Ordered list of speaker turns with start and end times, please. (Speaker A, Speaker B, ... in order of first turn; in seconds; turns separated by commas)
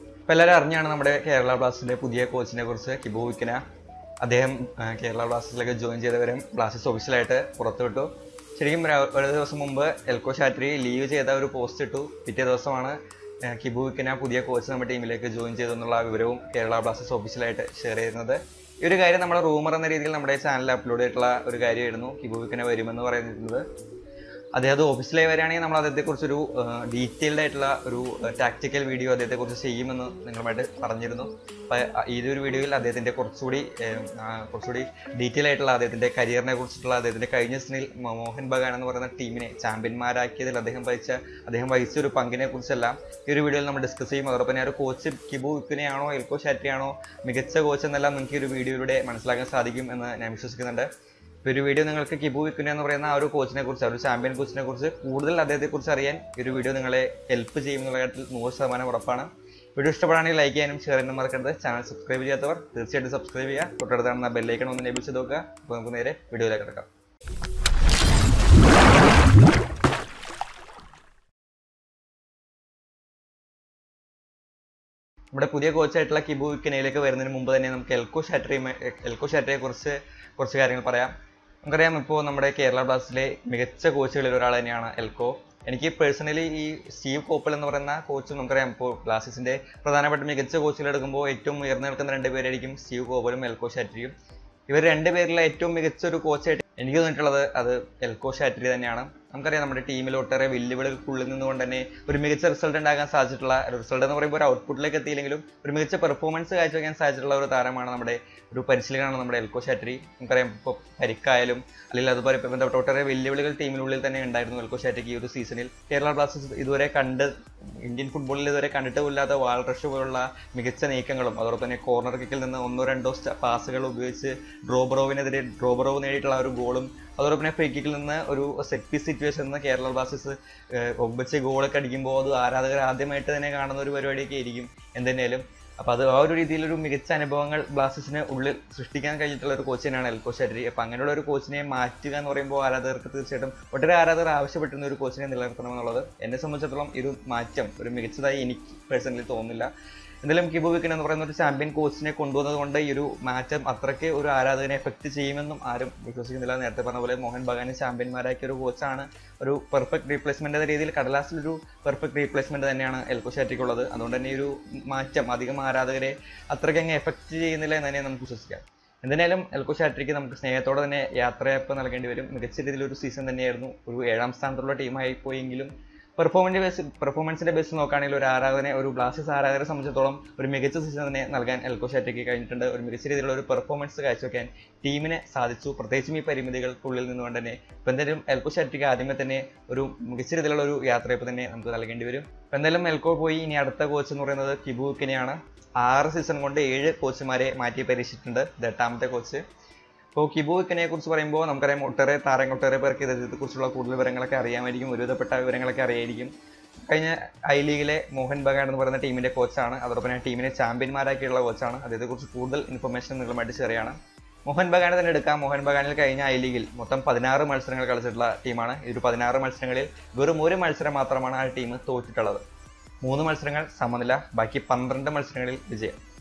Speaker A: 0.3-3.6, Speaker A: 4.2-23.6, Speaker A: 24.5-50.9, Speaker A: 51.4-66.9, Speaker A: 75.3-81.1, Speaker A: 81.6-94.2, Speaker A: 94.7-149.7, Speaker A: 150.2-199.4, Speaker A: 200.2-206.3, Speaker A: 206.9-222.4, Speaker A: 223.0-226.0